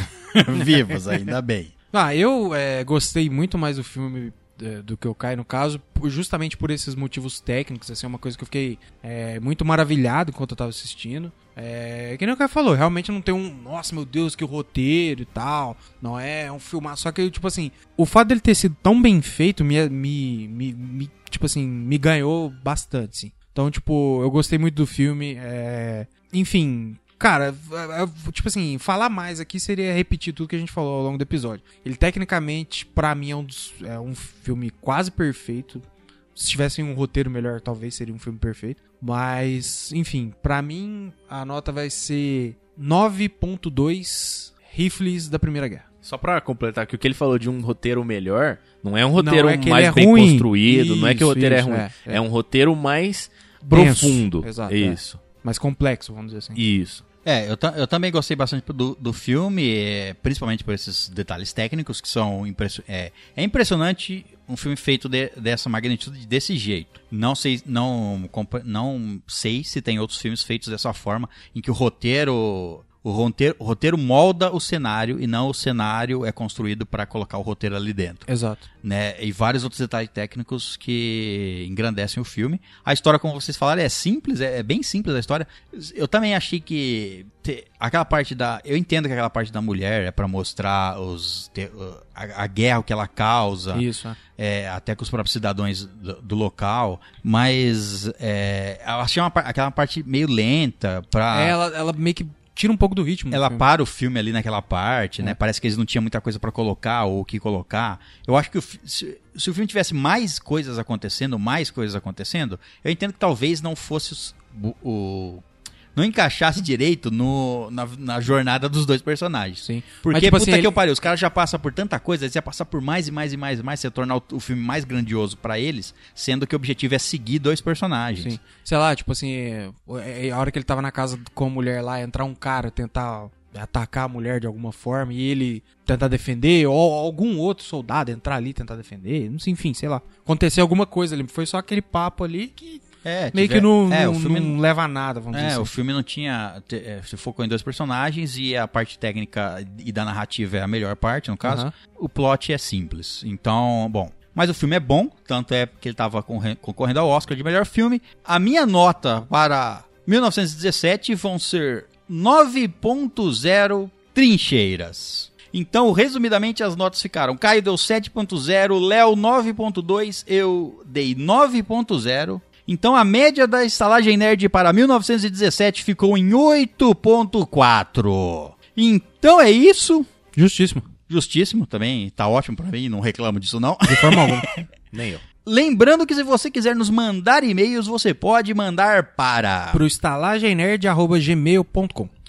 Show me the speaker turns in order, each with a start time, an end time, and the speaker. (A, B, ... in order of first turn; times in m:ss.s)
0:00.3-0:01.7 A
0:01.9-0:45.8 B
0:46.0-0:55.2 C
0:49.2-0:52.2 B
0:53.6-0:56.6 B
0:56.6-0:57.0 C
0:57.2-1:18.3 A
1:18.3-1:18.7 B
1:18.8-1:33.8 A
1:33.7-1:34.2 B
1:34.4-1:41.6 A
1:41.3-1:43.7 B
1:43.3-1:55.4 A
1:56.0-2:08.4 A
1:59.6-2:00.8 B
2:08.2-2:25.7 B
2:23.0-2:24.6 A
2:25.3-3:00.1 A
2:31.4-2:31.7 B
3:00.4-3:00.9 B
3:01.1-3:04.7 A
3:03.9-3:04.5 B
3:04.9-3:05.2 C
3:05.4-3:09.8 A
3:09.7-3:12.1 B